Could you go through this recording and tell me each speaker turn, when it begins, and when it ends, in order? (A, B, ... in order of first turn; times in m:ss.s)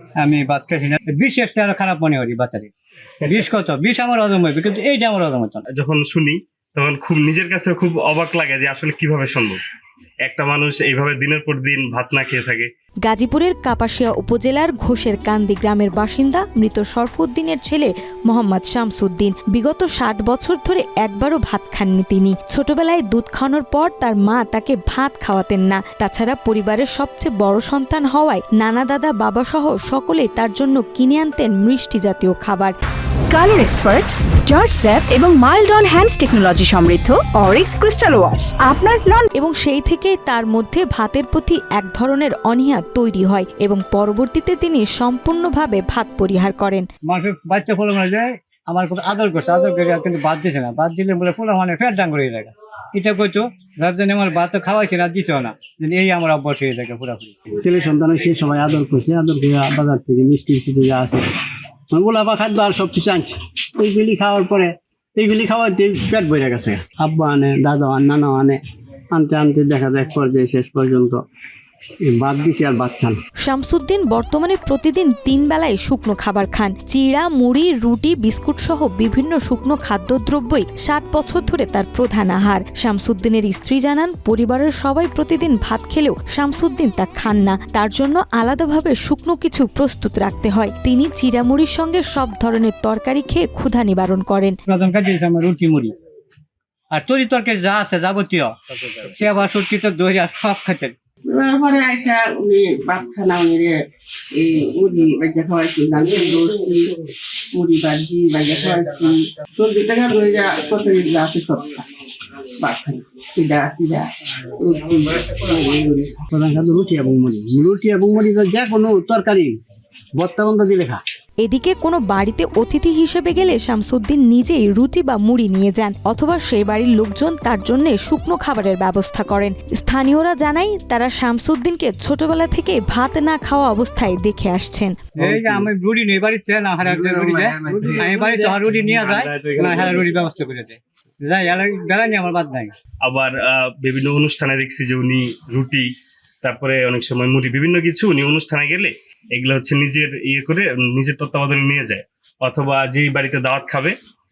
0:00.2-0:02.7 A
0:03.2-0:05.6 A
0:05.7-0:09.6 B
0:10.2-0:12.7 B
0:13.0-0:32.8 C
0:33.3-0:39.3 D
0:39.4-0:46.9 C
0:47.1-0:57.4 A
0:57.6-1:01.2 E
1:01.9-1:08.6 E
1:09.1-1:11.2 E
1:12.0-1:13.2 E
1:13.4-1:34.6 C
1:34.7-1:36.0 A
1:36.9-1:38.6 A
1:39.1-1:40.9 A
1:41.3-1:43.8 F
1:44.4-1:51.9 F
1:52.6-1:56.2 F
1:56.3-1:59.5 E
2:00.2-2:01.0 E
2:01.4-2:15.0 C
2:15.2-2:22.7 A
2:17.7-2:20.1 B
2:23.0-2:25.9 B
2:26.4-2:33.9 B